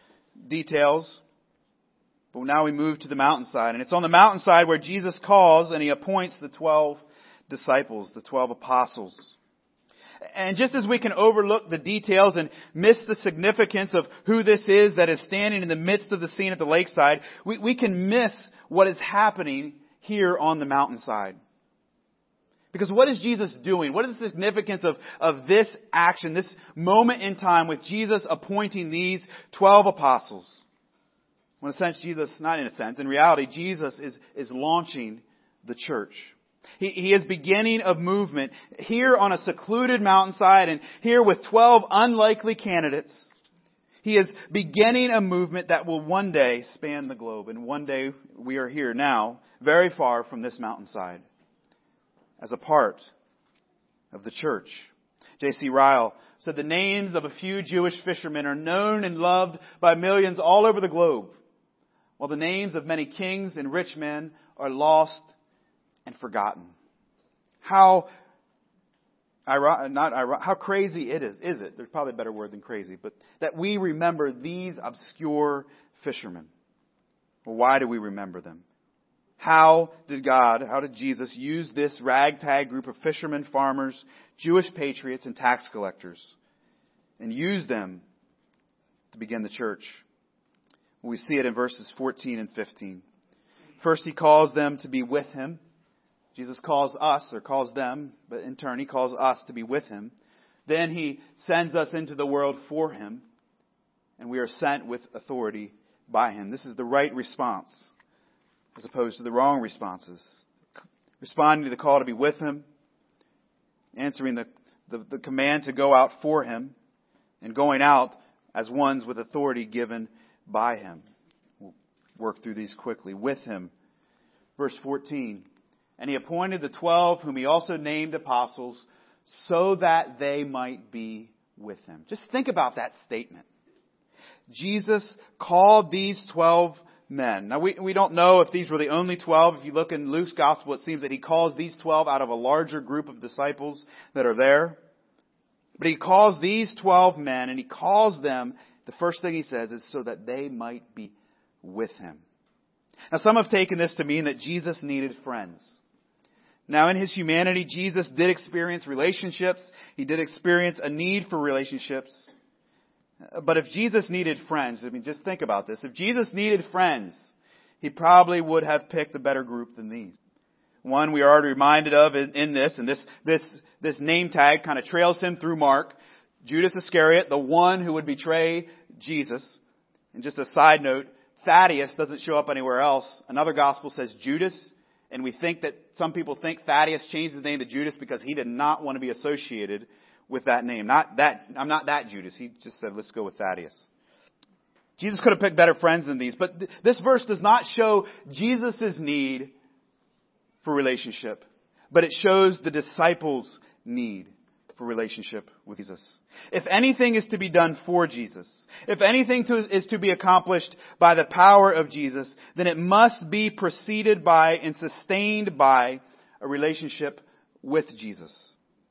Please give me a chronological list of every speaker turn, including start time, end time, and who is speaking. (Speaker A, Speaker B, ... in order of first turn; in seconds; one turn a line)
Speaker A: 0.4-1.2
Speaker A: 2.3-9.3
Speaker A: 10.3-21.4
Speaker A: 22.7-30.6
Speaker A: 31.6-43.3
Speaker A: 44.0-51.2
Speaker A: 52.4-53.1
Speaker A: 54.1-61.4
Speaker A: 62.2-65.3
Speaker A: 66.0-66.7
Speaker A: 67.6-68.1
Speaker A: 69.5-76.5
Speaker A: 77.4-78.6
Speaker A: 79.4-86.3
Speaker A: 87.2-88.0
Speaker A: 89.1-90.0
Speaker A: 91.0-93.0
Speaker A: 93.8-95.6
Speaker A: 96.3-100.1
Speaker A: 100.7-103.2
Speaker A: 104.2-107.9
Speaker A: 108.7-110.4
Speaker A: 111.2-112.7
Speaker A: 113.9-116.7
Speaker A: 117.4-121.0
Speaker A: 121.6-123.7
Speaker A: 124.6-125.5
Speaker A: 126.0-133.4
Speaker A: 134.5-144.8
Speaker A: 145.8-152.2
Speaker A: 153.1-155.8
Speaker A: 156.7-162.3
Speaker A: 163.3-170.2
Speaker A: 170.8-179.6
Speaker A: 180.1-193.9
Speaker A: 195.0-199.5
Speaker A: 200.6-218.6